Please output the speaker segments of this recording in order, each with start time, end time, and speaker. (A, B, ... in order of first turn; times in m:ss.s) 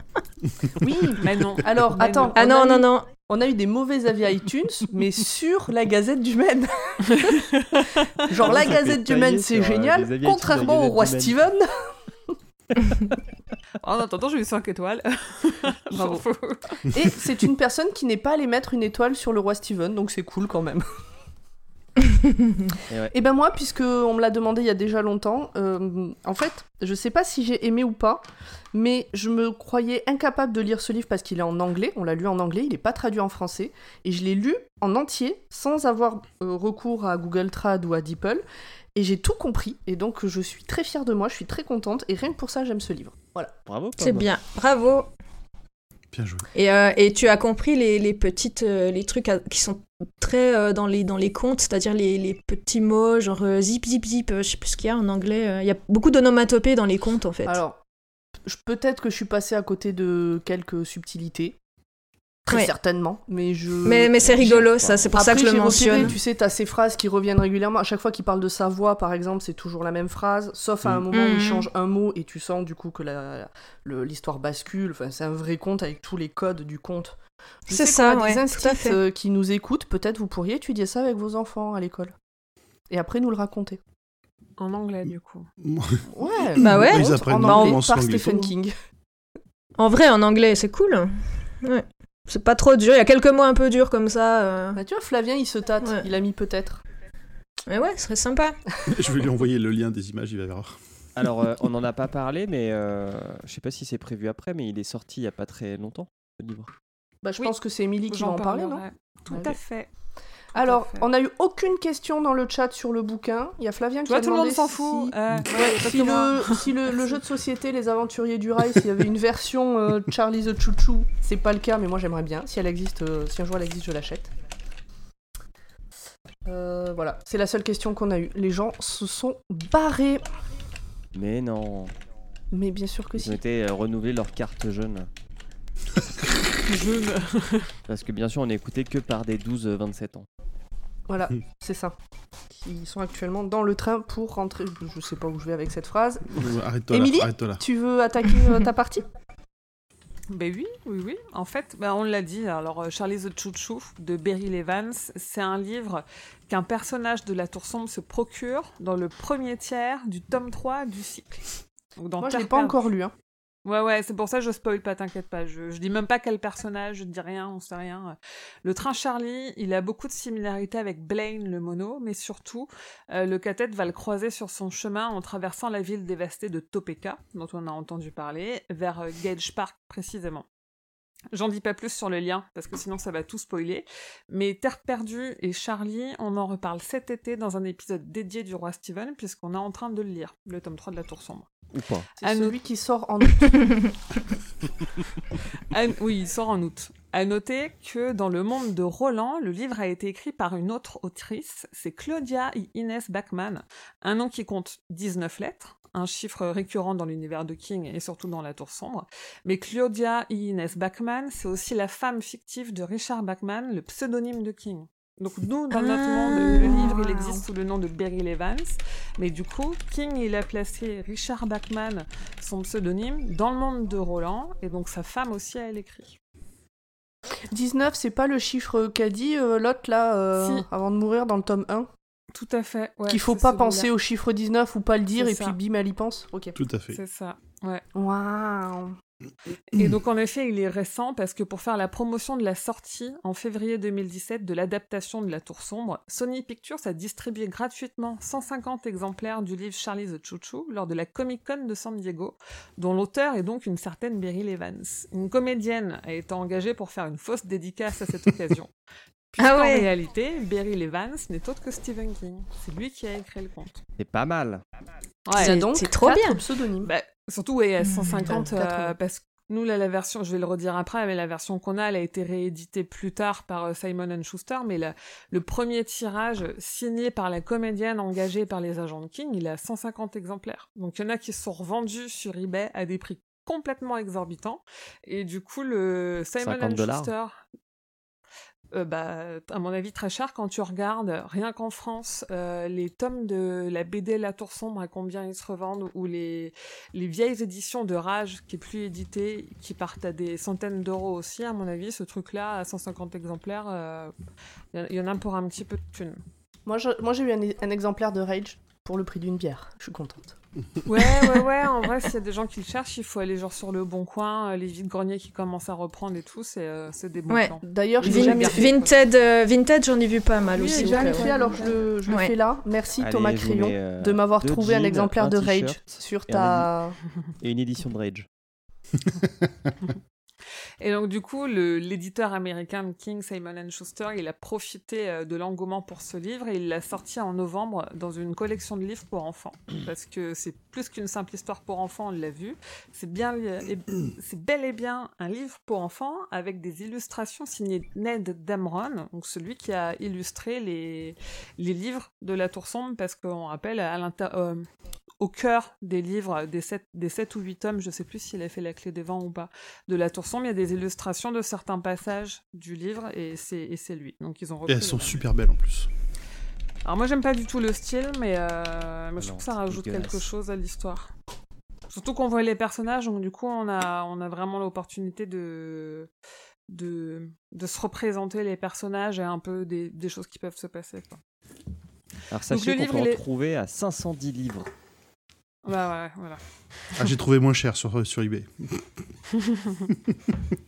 0:00.8-0:07.5 A
0:01.2-0:02.4 B
0:02.3-0:03.1 C
0:07.0-0:08.2 B
0:08.2-0:11.9 A
0:08.4-0:11.4 D
0:13.8-0:17.0 B
0:15.9-0:16.2 A
0:16.9-0:20.8 A
0:22.1-0:22.6 C
0:22.9-0:23.1 D
0:23.1-0:38.4 A
0:38.9-0:43.5 A
0:43.6-0:44.3 D
0:44.0-0:45.1 C
0:46.1-0:46.4 E
0:46.5-0:57.6 C
0:57.4-0:57.8 A
0:58.4-1:01.6 A
1:02.4-1:04.5 A
1:03.8-1:06.2 C
1:04.1-1:05.2 D
1:05.1-1:22.1 A
1:11.1-1:11.7 C
1:17.7-1:19.0 C
1:22.9-1:23.8 A
1:24.6-1:25.5 B
1:25.6-1:26.0 E
1:26.1-1:28.7 A
1:26.6-1:28.5 E
1:26.6-1:27.8 C
1:29.8-1:34.8 C
1:34.8-1:36.8 A
1:35.8-1:36.0 C
1:37.7-1:38.6 C
1:38.9-1:40.7 E
1:41.2-1:46.7 D
1:47.2-1:49.6 A
1:48.1-1:49.9 B
1:50.5-1:51.1 B
1:50.5-2:04.3 A
1:54.1-1:57.2 B
2:06.4-2:10.2 A
2:11.1-2:11.9 D
2:12.5-2:13.4 A
2:13.2-2:15.1 D
2:16.6-2:17.7 B
2:17.9-2:20.3 D
2:21.1-2:21.9 A
2:22.5-2:29.0 A
2:26.3-2:27.6 E
2:30.3-2:41.4 B
2:42.0-2:42.8 B
2:42.2-2:43.1 A
2:43.6-3:00.4 B
3:01.3-3:11.5 B
3:11.7-3:12.1 D
3:12.2-3:13.8 A
3:12.2-3:12.6 B
3:15.5-3:46.2 B
3:35.7-3:36.9 C
3:36.6-3:37.4 A
3:47.5-3:51.9 A
3:50.4-3:50.6 B
3:52.3-3:53.9 B
3:53.1-3:56.6 A
3:55.2-3:55.6 B
3:56.6-3:57.0 E
3:56.9-3:57.8 B
3:57.9-3:59.0 A
3:59.7-4:18.7 B
4:19.3-4:23.8 B
4:19.4-4:19.9 C
4:24.0-4:24.6 D
4:25.2-4:25.6 B
4:25.3-4:26.9 A
4:25.3-4:26.4 C
4:26.8-4:47.4 B
4:27.8-4:28.4 C
4:28.3-4:29.0 A
4:46.4-4:47.1 D
4:48.7-5:04.1 B
5:04.7-5:06.2 B
5:06.6-5:10.3 A
5:10.8-5:19.0 B
5:17.3-5:21.5 C
5:17.6-5:18.8 A
5:20.5-5:27.0 A
5:20.6-5:21.8 B
5:22.1-5:22.3 C
5:23.0-5:26.7 D
5:27.4-5:28.3 D
5:30.8-5:54.7 B
5:55.2-6:05.2 B
6:04.7-6:05.9 E
6:06.8-6:11.1 B
6:09.2-6:10.3 D
6:11.9-6:16.1 B
6:16.7-6:21.2 B
6:22.3-6:24.7 D
6:22.5-6:23.2 B
6:25.6-6:26.4 B
6:27.0-6:28.8 E
6:29.3-6:29.9 B